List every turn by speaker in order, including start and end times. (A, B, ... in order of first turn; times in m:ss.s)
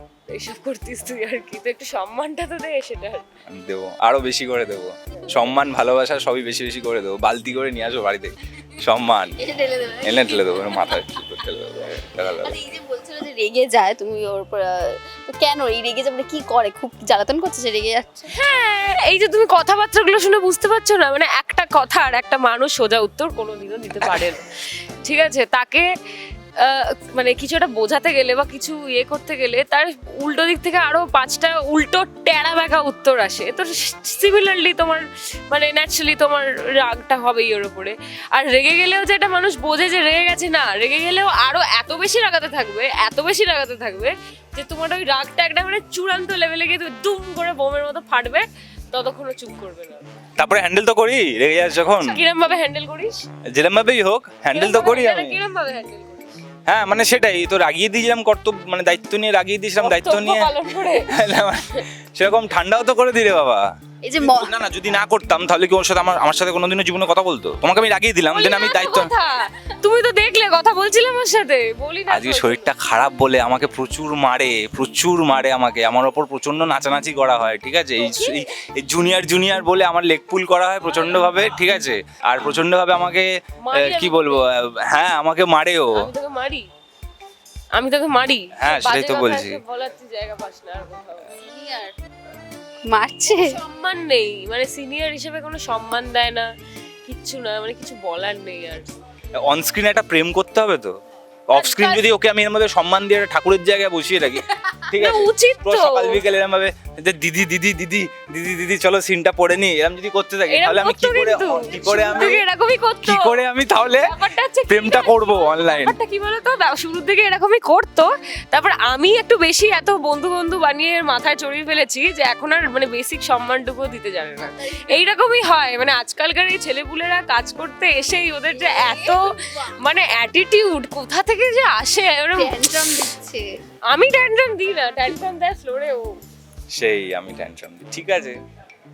0:00.3-0:03.3 A
0:03.5-0:12.6 B
0:09.5-0:10.2 C
0:12.4-0:18.3 C
0:18.3-0:25.9 A
0:26.6-0:50.0 A
0:50.4-0:52.2 B
0:51.9-0:53.2 A
0:53.5-0:55.4 B
0:54.5-0:56.3 A
0:56.7-1:03.6 B
0:59.8-1:01.1 A
1:04.0-1:04.5 C
1:04.2-1:09.1 B
1:08.3-1:12.7 A
1:12.1-1:26.1 B
1:18.0-1:18.4 A
1:23.6-1:24.5 A
1:25.9-1:26.6 A
1:27.7-1:31.4 A
1:28.6-1:29.6 B
1:31.4-1:31.9 C
1:32.9-1:33.6 C
1:33.3-1:36.5 A
1:37.0-1:38.9 A
1:39.4-1:40.9 B
1:41.5-1:52.4 B
1:41.5-1:42.0 C
1:44.9-1:46.2 A
1:50.5-2:12.7 A
1:53.0-1:54.1 B
1:54.7-1:56.0 B
2:04.6-2:05.0 C
2:08.6-2:09.6 C
2:12.4-2:13.5 C
2:13.9-2:16.2 A
2:16.7-2:18.4 B